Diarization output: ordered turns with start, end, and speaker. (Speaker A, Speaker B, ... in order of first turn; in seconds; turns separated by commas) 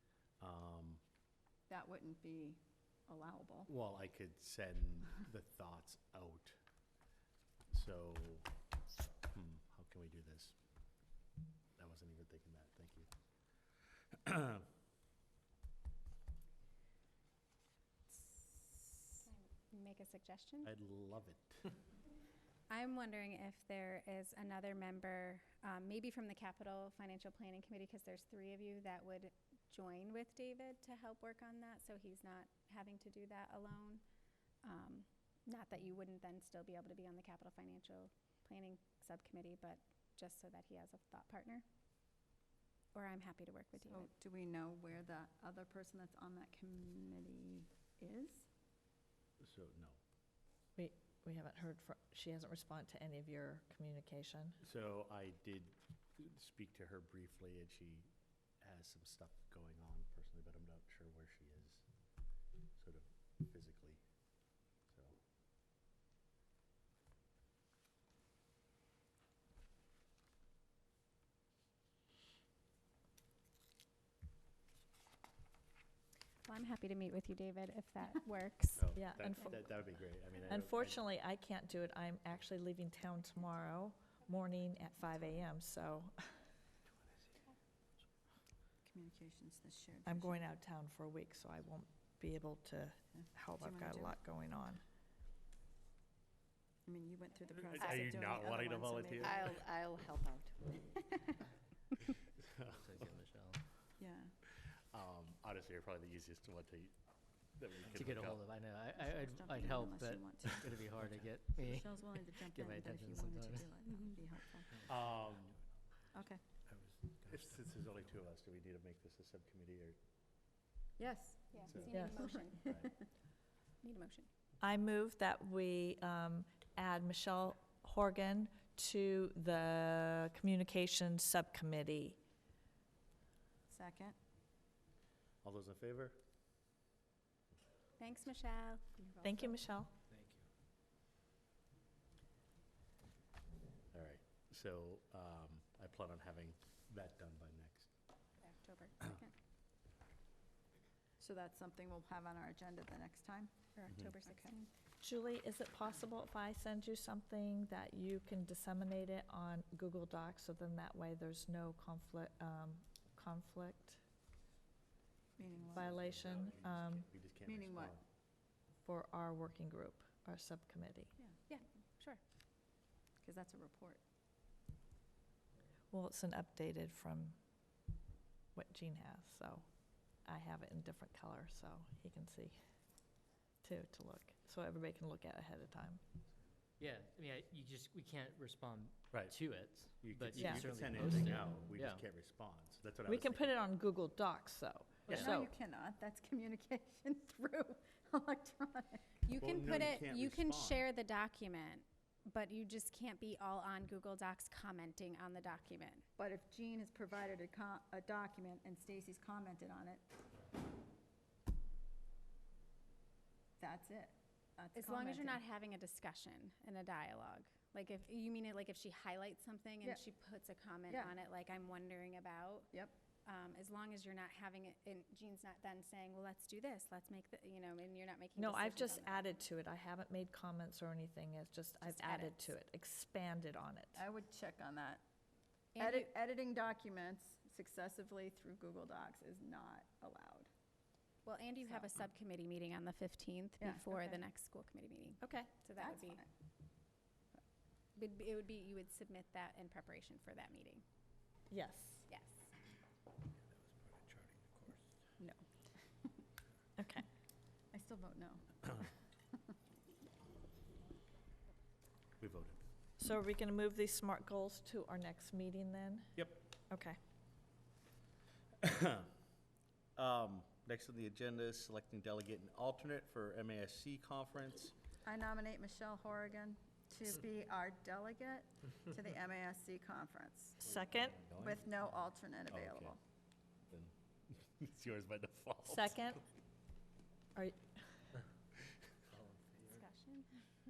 Speaker A: 0.4-1.0, Speaker B: 1.7-3.7, Speaker A: 3.7-6.6, Speaker A: 7.7-8.5, Speaker A: 9.3-10.6, Speaker A: 11.8-13.1, Speaker A: 14.2-14.7, Speaker C: 18.1-20.7, Speaker A: 20.6-21.7, Speaker C: 22.7-34.0, Speaker C: 34.6-41.6, Speaker C: 42.9-44.1, Speaker B: 43.8-48.5, Speaker A: 49.4-50.0, Speaker D: 50.8-54.6, Speaker A: 54.6-61.8, Speaker A: 62.8-64.0, Speaker A: 64.9-65.2, Speaker C: 76.5-78.9, Speaker A: 78.8-81.0, Speaker D: 78.9-79.6, Speaker D: 80.5-86.5, Speaker B: 88.8-90.4, Speaker D: 90.0-94.8, Speaker B: 93.2-94.1, Speaker B: 96.8-99.6, Speaker A: 97.6-99.7, Speaker E: 100.0-100.5, Speaker A: 102.4-103.1, Speaker F: 102.7-103.6, Speaker B: 104.0-104.3, Speaker A: 104.9-106.9, Speaker A: 107.5-108.4, Speaker F: 107.9-113.8, Speaker B: 109.0-110.8, Speaker B: 111.6-114.7, Speaker A: 114.9-115.5, Speaker B: 116.1-116.4, Speaker E: 116.7-117.6, Speaker A: 117.3-120.0, Speaker B: 121.0-122.3, Speaker C: 121.5-122.9, Speaker A: 121.7-122.0, Speaker D: 121.9-122.2, Speaker A: 122.6-122.9, Speaker C: 123.8-124.3, Speaker D: 124.6-132.2, Speaker B: 133.7-134.2, Speaker A: 135.4-136.2, Speaker C: 138.0-139.6, Speaker D: 139.2-139.9, Speaker A: 143.9-147.9, Speaker C: 148.4-149.3, Speaker B: 151.2-153.6, Speaker C: 153.7-154.7, Speaker B: 154.2-154.6, Speaker D: 155.0-164.0, Speaker B: 165.4-165.9, Speaker D: 165.7-167.1, Speaker A: 165.8-168.0, Speaker B: 167.4-167.9, Speaker D: 168.8-171.1, Speaker C: 171.5-172.2, Speaker B: 173.2-174.0, Speaker D: 175.9-177.4, Speaker D: 178.5-179.7, Speaker D: 180.2-182.6, Speaker D: 183.6-186.0, Speaker F: 186.8-192.0, Speaker A: 190.0-193.6, Speaker D: 190.3-190.6, Speaker D: 193.1-195.5, Speaker A: 195.1-195.3, Speaker B: 195.1-199.2, Speaker C: 199.2-206.0, Speaker A: 199.4-200.9, Speaker B: 206.2-210.0, Speaker B: 213.6-215.4, Speaker C: 214.7-222.7, Speaker C: 223.2-229.3, Speaker D: 228.3-234.0, Speaker C: 231.8-232.4, Speaker B: 233.9-235.0, Speaker C: 235.8-236.1, Speaker B: 235.8-240.5, Speaker C: 241.2-246.2, Speaker B: 243.6-244.2, Speaker D: 245.2-245.5, Speaker B: 245.8-246.2, Speaker C: 247.9-250.8, Speaker D: 251.5-252.1, Speaker C: 252.1-252.5, Speaker E: 253.7-254.8, Speaker B: 255.2-256.1, Speaker D: 256.8-257.1, Speaker B: 257.7-258.5, Speaker A: 262.2-262.6, Speaker D: 263.0-267.0, Speaker A: 266.2-266.4, Speaker A: 268.6-269.1, Speaker A: 269.9-274.7, Speaker B: 275.0-280.6, Speaker D: 280.6-281.2, Speaker A: 280.6-281.7, Speaker B: 281.4-283.0, Speaker A: 282.5-283.0, Speaker A: 283.7-286.1, Speaker D: 285.7-286.2, Speaker D: 287.3-287.8, Speaker F: 289.1-289.6, Speaker C: 289.6-290.4